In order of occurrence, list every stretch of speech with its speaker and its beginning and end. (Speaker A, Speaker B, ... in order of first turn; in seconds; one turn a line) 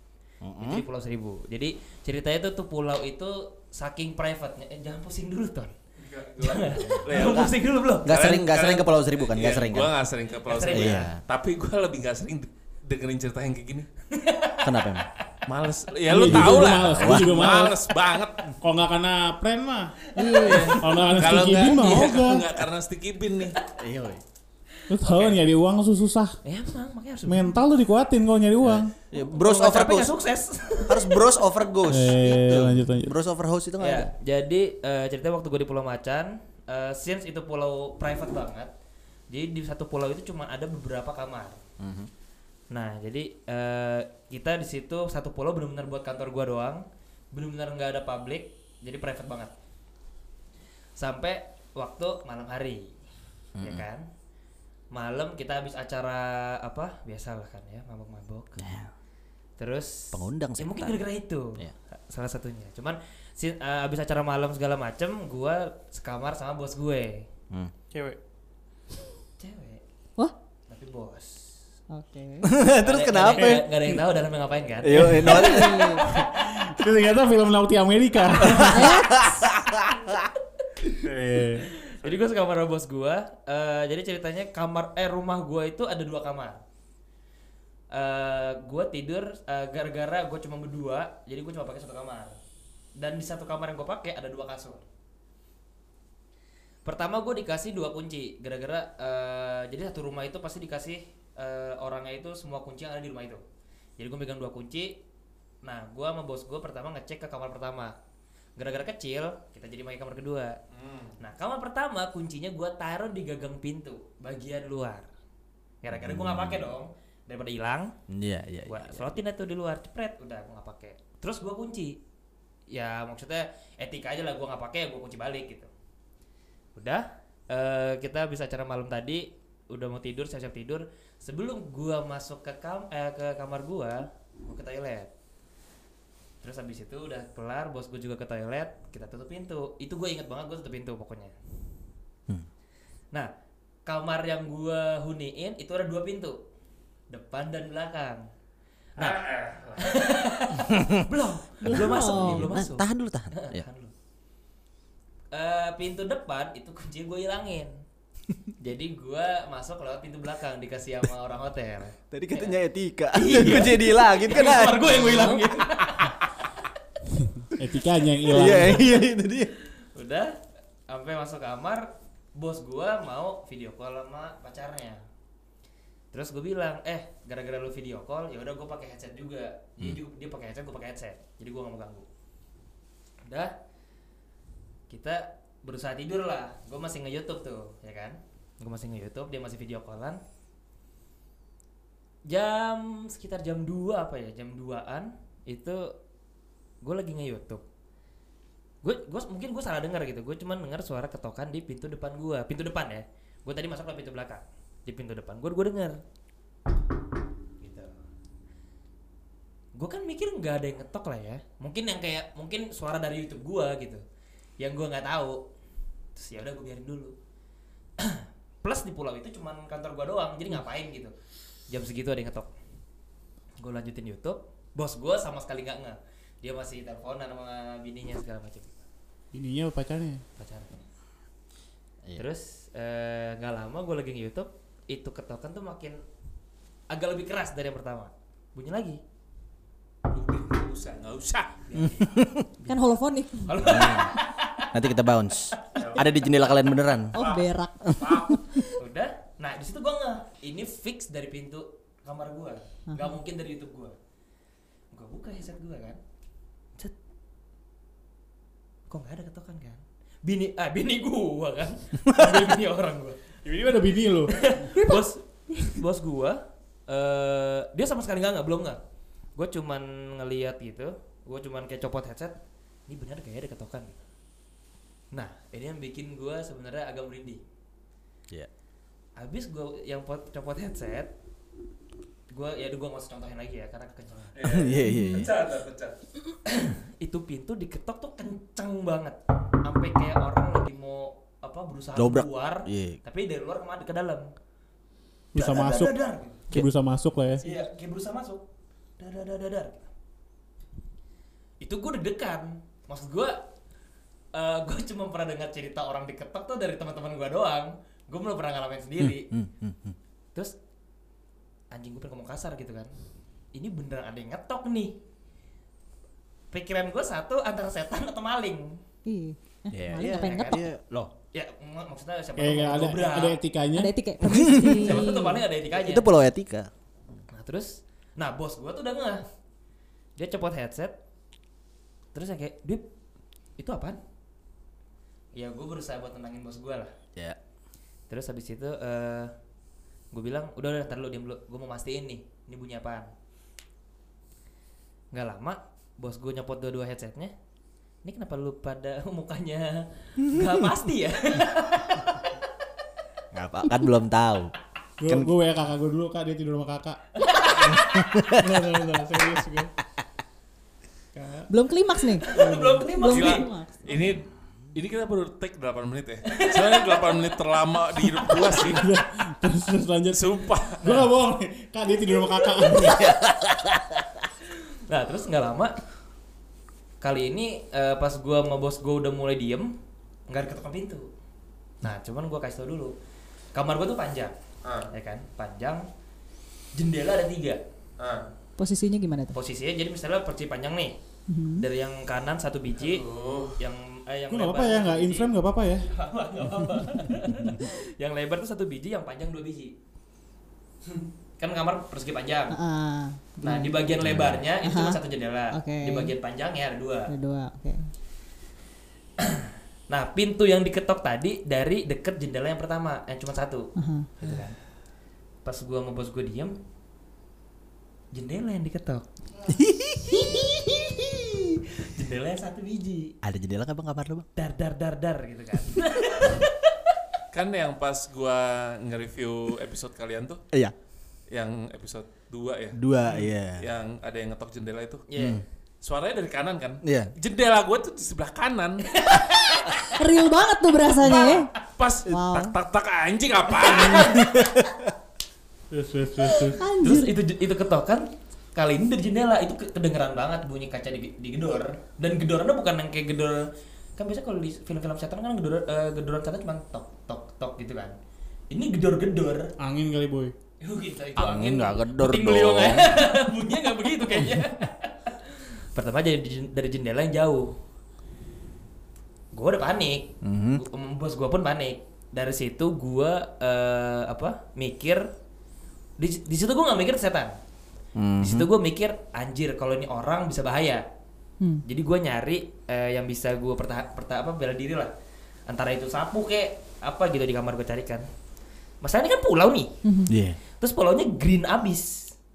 Speaker A: 0.4-0.8
Speaker B: 0.6-5.7
Speaker C: 6.0-13.9
Speaker B: 6.4-8.2
Speaker A: 6.9-7.5
Speaker A: 8.1-9.9
Speaker B: 10.4-11.1
Speaker A: 10.7-11.2
Speaker B: 14.1-15.0
Speaker A: 14.6-15.1
Speaker C: 15.5-18.5
Speaker D: 16.1-17.9
Speaker A: 16.1-17.5
Speaker D: 18.6-22.5
Speaker B: 20.1-20.8
Speaker E: 20.2-20.7
Speaker C: 20.3-23.6
Speaker A: 23.7-24.2
Speaker D: 24.9-26.4
Speaker B: 25.0-25.4
Speaker B: 26.4-27.5
Speaker D: 27.3-28.9
Speaker A: 28.6-30.1
Speaker B: 29.3-31.4
Speaker A: 30.9-34.1
Speaker D: 31.9-33.1
Speaker B: 33.8-38.7
Speaker B: 39.3-41.6
Speaker A: 41.8-42.1
Speaker B: 42.7-49.5
Speaker B: 51.0-53.0
Speaker A: 53.6-53.8
Speaker B: 53.6-54.1
Speaker B: 54.9-58.6
Speaker A: 58.6-58.9
Speaker B: 59.6-61.6
Speaker A: 60.1-61.0
Speaker B: 62.1-67.3
Speaker B: 69.4-69.8
Speaker B: 70.7-71.5
Speaker E: 71.9-72.5
Speaker A: 72.4-73.9
Speaker B: 72.8-75.6
Speaker A: 74.8-76.1
Speaker D: 74.9-79.1
Speaker E: 75.2-76.1
Speaker A: 78.5-80.3
Speaker E: 78.6-79.5
Speaker C: 81.0-82.1
Speaker D: 81.1-81.6
Speaker B: 81.6-86.6
Speaker B: 87.9-92.4
Speaker B: 93.0-94.9
Speaker B: 96.8-103.4
Speaker B: 104.0-105.0
Speaker B: 105.6-108.0
Speaker B: 108.6-110.6
Speaker C: 110.7-111.1
Speaker B: 111.2-115.1
Speaker B: 115.8-117.9
Speaker A: 115.9-116.6
Speaker A: 118.1-119.1
Speaker B: 118.7-122.0
Speaker B: 122.7-125.7
Speaker B: 126.8-135.1
Speaker B: 136.4-141.3
Speaker B: 143.9-146.4
Speaker B: 147.1-148.2
Speaker B: 149.0-149.2
Speaker C: 149.0-150.1
Speaker B: 149.8-153.9
Speaker A: 151.7-153.6
Speaker E: 151.7-152.6
Speaker B: 155.3-157.7
Speaker B: 158.6-162.6
Speaker A: 162.1-165.7
Speaker B: 163.1-166.4
Speaker D: 167.3-169.0
Speaker A: 168.3-169.5
Speaker B: 169.8-170.4
Speaker B: 170.9-175.0
Speaker B: 176.1-182.1
Speaker B: 183.3-183.5
Speaker B: 184.9-190.2
Speaker B: 192.3-195.9
Speaker B: 196.8-197.6
Speaker B: 198.8-206.0
Speaker B: 209.8-214.0
Speaker B: 214.6-215.4
Speaker B: 216.2-217.2
Speaker B: 218.0-221.1
Speaker B: 221.7-222.5
Speaker B: 223.6-228.8
Speaker D: 229.3-230.2
Speaker B: 230.4-230.8
Speaker B: 232.2-236.0
Speaker B: 236.9-239.0
Speaker C: 240.1-241.6
Speaker B: 241.7-242.1
Speaker A: 241.8-242.4
Speaker E: 242.7-243.6
Speaker B: 243.4-244.7
Speaker A: 243.6-247.2
Speaker C: 245.8-246.2
Speaker E: 247.1-248.7
Speaker C: 247.2-248.4
Speaker A: 247.8-248.2
Speaker B: 248.8-254.0
Speaker B: 254.9-256.0
Speaker B: 258.9-263.4
Speaker D: 263.4-264.7
Speaker B: 264.3-268.8
Speaker B: 269.4-272.4
Speaker B: 272.9-274.0
Speaker B: 275.1-277.4
Speaker B: 279.2-281.1
Speaker B: 282.3-284.4
Speaker C: 284.4-285.9
Speaker A: 284.4-285.3
Speaker E: 284.9-285.2
Speaker B: 286.4-294.3
Speaker A: 292.0-293.0
Speaker D: 295.3-296.0
Speaker B: 295.4-296.5
Speaker D: 296.5-297.4
Speaker B: 297.4-298.4
Speaker B: 299.0-299.9
Speaker B: 301.6-303.4
Speaker B: 304.3-309.3
Speaker A: 309.0-310.0
Speaker B: 311.7-312.9
Speaker B: 313.5-315.0
Speaker B: 316.5-318.8
Speaker E: 319.1-320.7
Speaker A: 319.7-321.1
Speaker B: 320.0-320.7
Speaker B: 321.3-323.4
Speaker D: 322.4-323.9
Speaker E: 323.7-325.5
Speaker A: 324.2-325.0
Speaker B: 324.3-326.1
Speaker A: 325.7-326.7
Speaker B: 327.3-329.2
Speaker B: 330.2-330.9
Speaker B: 332.1-332.9
Speaker B: 333.6-334.0
Speaker B: 335.4-336.9
Speaker B: 338.1-339.3
Speaker B: 340.1-343.1
Speaker B: 345.1-347.3
Speaker B: 348.0-352.3
Speaker A: 353.3-354.5
Speaker D: 355.0-359.7
Speaker B: 357.2-358.1
Speaker A: 357.6-358.5
Speaker D: 361.1-361.5
Speaker E: 361.5-364.1
Speaker B: 362.2-363.5
Speaker C: 363.1-368.9
Speaker B: 366.3-367.1
Speaker D: 368.7-370.2
Speaker C: 370.1-371.0
Speaker D: 370.8-373.1
Speaker A: 372.7-374.0
Speaker B: 374.9-375.8
Speaker B: 377.0-379.7
Speaker B: 380.3-381.1
Speaker B: 381.8-382.9
Speaker B: 383.5-384.4
Speaker C: 384.6-384.9
Speaker B: 384.9-385.9
Speaker B: 386.8-387.6
Speaker C: 388.0-388.3
Speaker E: 388.6-389.4
Speaker B: 389.3-391.0
Speaker E: 391.3-391.7
Speaker B: 391.6-395.3
Speaker C: 392.8-393.6
Speaker D: 394.3-395.9
Speaker B: 395.9-399.7
Speaker B: 401.4-402.6
Speaker E: 402.5-403.8
Speaker B: 403.4-407.1
Speaker A: 404.0-404.4
Speaker E: 404.6-405.0
Speaker E: 405.5-406.1
Speaker E: 407.1-407.8
Speaker B: 409.2-414.6
Speaker E: 413.8-414.5
Speaker B: 415.4-416.6
Speaker B: 418.1-419.1
Speaker A: 419.5-420.4
Speaker B: 420.1-423.1
Speaker A: 423.2-424.3
Speaker B: 424.4-426.8
Speaker C: 427.3-430.4
Speaker C: 431.3-435.1
Speaker A: 432.8-433.6
Speaker B: 435.1-435.4
Speaker A: 435.2-435.4
Speaker C: 435.8-439.0
Speaker A: 436.8-437.1
Speaker B: 438.9-439.9
Speaker E: 439.9-441.5
Speaker C: 441.2-444.3
Speaker E: 442.1-442.6
Speaker B: 443.6-444.3
Speaker A: 443.7-444.9
Speaker D: 445.7-446.6
Speaker E: 446.4-447.2
Speaker B: 446.8-458.0
Speaker B: 458.5-459.5
Speaker D: 459.6-460.3
Speaker B: 460.6-467.5
Speaker A: 461.2-462.9
Speaker B: 469.3-475.1
Speaker A: 470.2-470.6
Speaker B: 476.0-477.4
Speaker A: 478.0-478.5
Speaker B: 478.2-480.9
Speaker B: 481.6-484.9
Speaker B: 485.5-488.1
Speaker B: 488.8-489.7
Speaker E: 489.8-490.1
Speaker A: 490.1-490.4
Speaker B: 490.6-492.1